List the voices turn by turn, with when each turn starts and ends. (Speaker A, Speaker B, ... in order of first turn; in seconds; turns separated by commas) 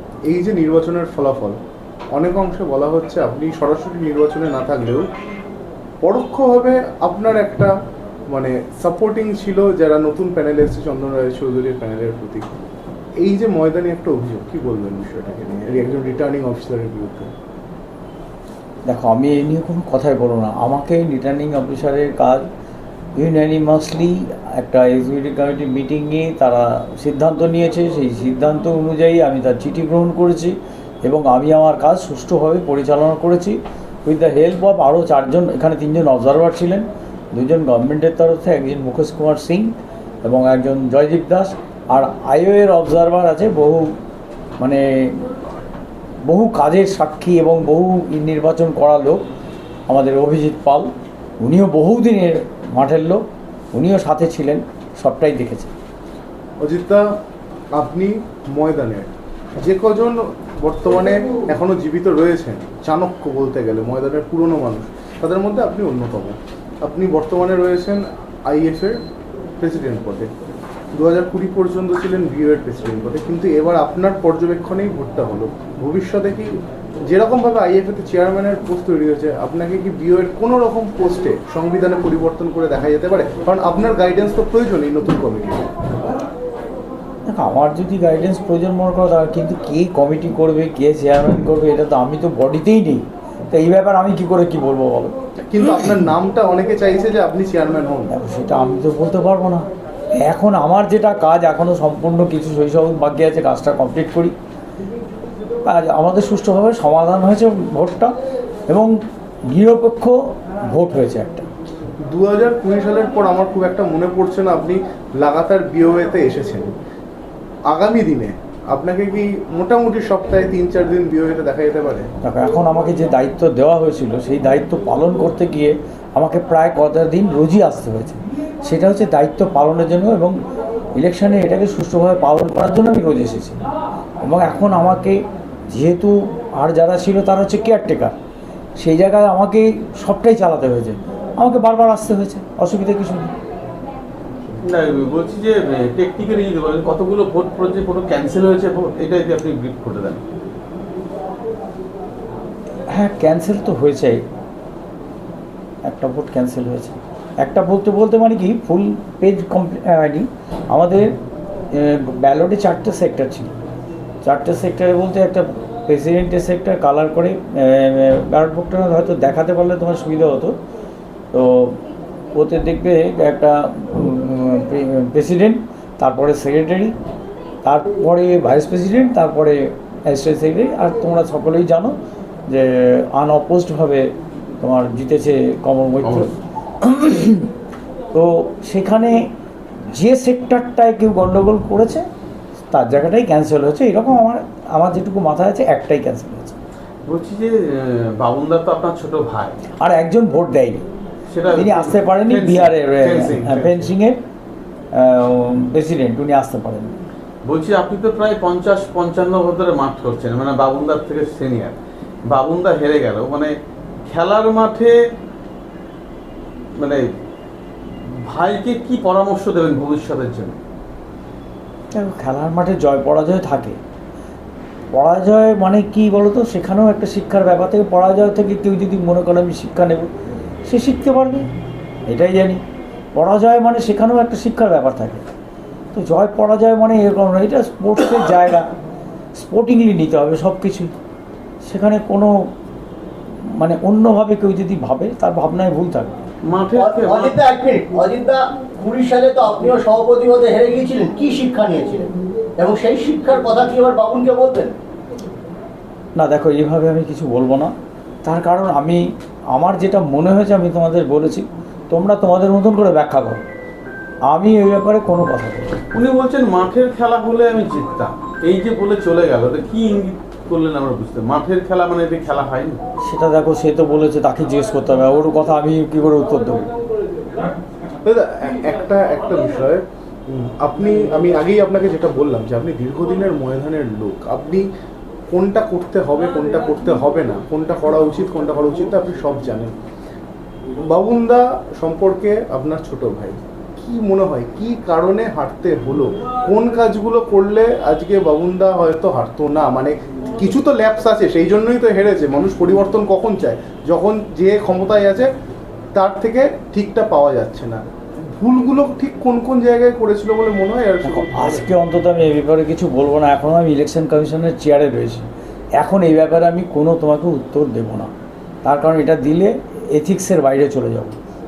Speaker A: 0.3-1.6, Speaker A: 2.1-5.0, Speaker A: 6.0-7.7, Speaker A: 8.3-12.5, Speaker A: 13.2-17.3, Speaker B: 18.9-22.4, Speaker B: 23.2-39.7, Speaker B: 40.2-43.9, Speaker B: 44.6-45.1, Speaker B: 46.3-49.2, Speaker B: 49.9-50.9, Speaker B: 51.4-55.7, Speaker A: 56.6-57.1, Speaker A: 57.7-69.0, Speaker A: 69.6-70.3, Speaker A: 70.9-76.5, Speaker A: 77.1-85.7, Speaker B: 87.3-95.1, Speaker A: 95.5-98.1, Speaker B: 98.1-99.7, Speaker B: 100.2-104.3, Speaker B: 105.7-108.1, Speaker B: 109.5-111.5, Speaker A: 112.0-116.7, Speaker A: 117.7-122.1, Speaker B: 122.2-130.3, Speaker B: 130.9-133.6, Speaker B: 134.2-138.1, Speaker B: 138.8-143.3, Speaker C: 144.6-150.2, Speaker B: 152.9-154.2, Speaker B: 155.8-161.2, Speaker B: 161.7-163.5, Speaker B: 164.2-170.5, Speaker B: 171.3-171.8, Speaker B: 172.3-176.9, Speaker B: 177.6-181.9, Speaker B: 182.5-187.5, Speaker C: 186.0-186.3, Speaker B: 188.1-189.2, Speaker B: 189.9-192.0, Speaker B: 192.7-196.6, Speaker C: 197.1-199.6, Speaker B: 199.8-200.8, Speaker C: 201.3-203.7, Speaker B: 201.5-204.2, Speaker B: 204.9-206.9, Speaker C: 207.4-213.6, Speaker C: 214.1-214.9, Speaker C: 216.7-217.0, Speaker C: 217.8-220.6, Speaker B: 221.9-223.8, Speaker B: 224.9-230.1, Speaker B: 230.7-231.5, Speaker B: 232.1-232.6, Speaker B: 233.1-235.2, Speaker B: 235.9-238.7, Speaker B: 239.3-240.9, Speaker B: 241.6-242.5, Speaker B: 243.5-246.1, Speaker C: 246.4-247.4, Speaker D: 246.7-254.7, Speaker B: 256.1-257.7, Speaker B: 258.2-263.4, Speaker B: 264.3-265.8, Speaker C: 265.9-272.8, Speaker B: 273.0-276.7, Speaker A: 278.0-284.7, Speaker A: 285.3-289.7, Speaker A: 290.8-305.3, Speaker A: 305.9-307.8, Speaker A: 308.3-311.7, Speaker B: 311.0-315.3, Speaker B: 315.8-318.1, Speaker B: 318.6-321.1